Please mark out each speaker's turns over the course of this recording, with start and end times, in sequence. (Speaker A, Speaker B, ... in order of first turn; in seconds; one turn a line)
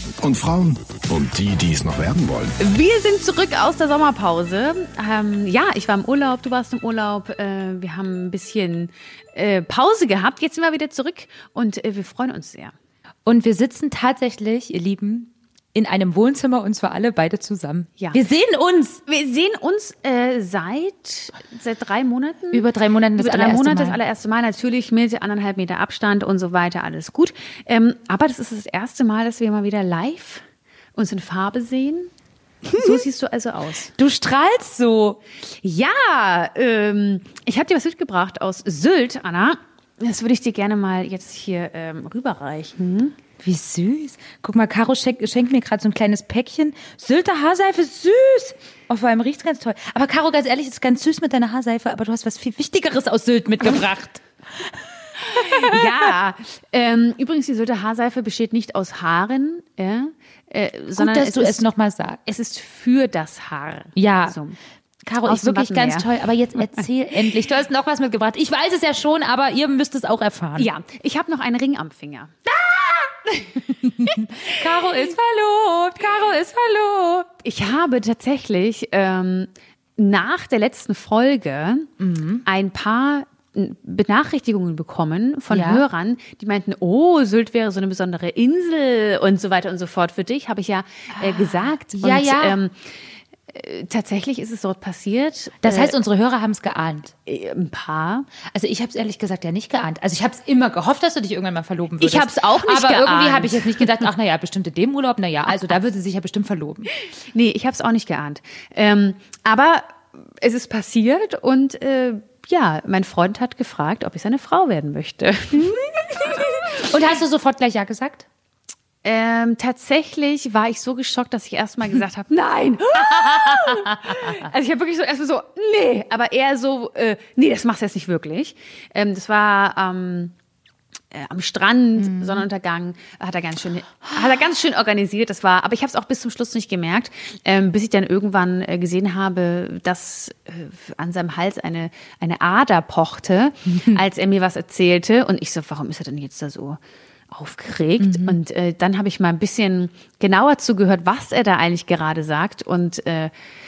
Speaker A: 0.2-2.6
Speaker B: 2.6-12.7
Speaker C: 13.3-19.0
Speaker B: 19.1-22.6
Speaker C: 22.5-24.0
Speaker B: 23.2-30.4
Speaker B: 30.9-32.1
Speaker B: 32.7-33.9
Speaker C: 34.0-35.2
Speaker B: 35.6-43.1
Speaker C: 43.4-55.9
Speaker B: 55.3-61.6
Speaker C: 61.0-62.2
Speaker B: 62.3-64.6
Speaker C: 64.0-64.4
Speaker C: 65.1-70.7
Speaker B: 65.3-66.1
Speaker B: 70.6-74.3
Speaker C: 73.8-77.3
Speaker B: 77.4-81.9
Speaker C: 82.0-82.5
Speaker B: 82.5-92.9
Speaker C: 85.5-85.8
Speaker C: 91.2-92.6
Speaker B: 93.5-96.0
Speaker C: 95.6-97.1
Speaker B: 97.3-98.3
Speaker C: 98.5-106.9
Speaker B: 102.0-104.1
Speaker B: 107.3-116.8
Speaker C: 115.6-118.3
Speaker B: 119.0-130.3
Speaker C: 123.1-124.2
Speaker B: 131.1-146.8
Speaker C: 132.0-132.4
Speaker C: 143.7-144.0
Speaker B: 147.3-153.3
Speaker C: 148.0-148.4